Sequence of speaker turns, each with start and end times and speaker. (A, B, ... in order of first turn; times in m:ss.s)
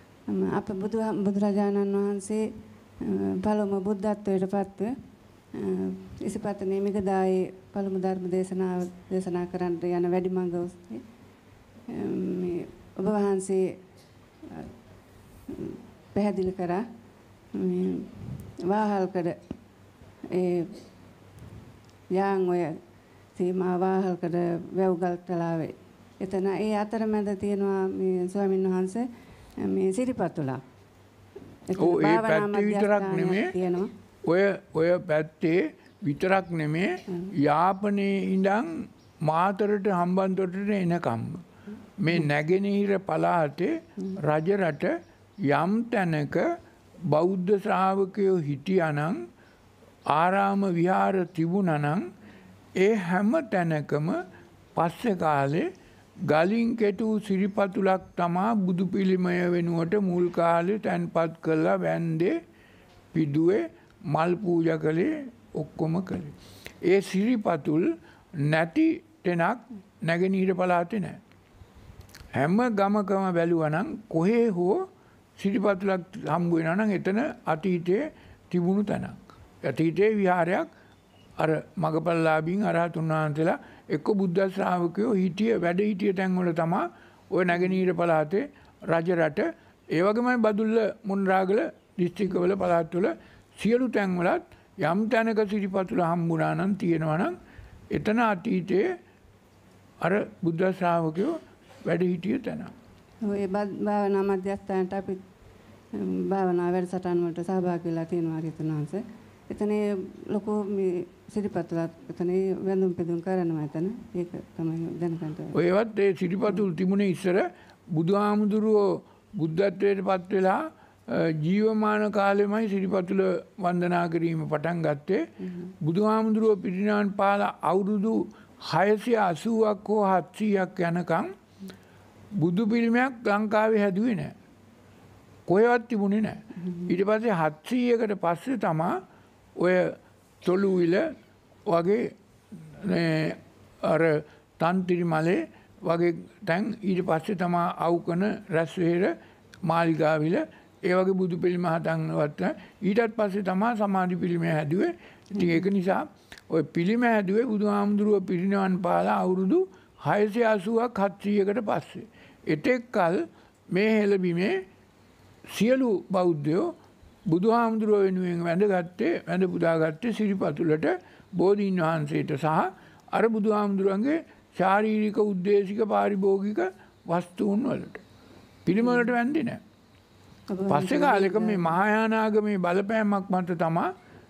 0:00.2-0:02.4 A
0:03.0-0:04.9 A
0:05.5-0:11.2 A
0:11.9-0:13.7 A
0:15.5-0:16.8 A
0:17.5-0:19.4 A
0:20.3-0:20.8 A
0:22.1-0:22.8 A
0:23.3-0:29.1 A
0:29.6-0:30.6 A
0:31.7-0:33.9 A
0:31.8-0:33.5 B
0:34.2-0:41.4 B
0:42.0-0:46.5 B
0:47.1-0:49.2 B
0:50.1-0:52.1 B
0:52.8-0:54.2 B
0:54.8-0:55.7 B
0:56.2-1:02.4 B
1:03.1-1:11.2 B
1:12.3-1:20.7 B
1:21.4-1:37.4 B
1:27.5-1:27.8 A
1:37.9-1:39.0 B
1:40.0-1:42.7 B
1:43.2-1:45.2 A
1:45.9-1:55.6 A
1:55.5-2:05.2 B
2:05.4-2:05.7 A
2:05.8-2:11.3 B
2:12.4-2:14.3 B
2:15.5-2:19.0 B
2:16.6-2:16.9 A
2:19.6-2:21.1 B
2:21.7-2:44.6 B
2:35.3-2:35.7 A
2:45.5-2:46.7 B
2:47.3-2:58.0 B
2:58.6-2:59.6 B
2:58.7-2:59.1 A
3:00.5-3:01.8 A
3:00.7-3:03.9 B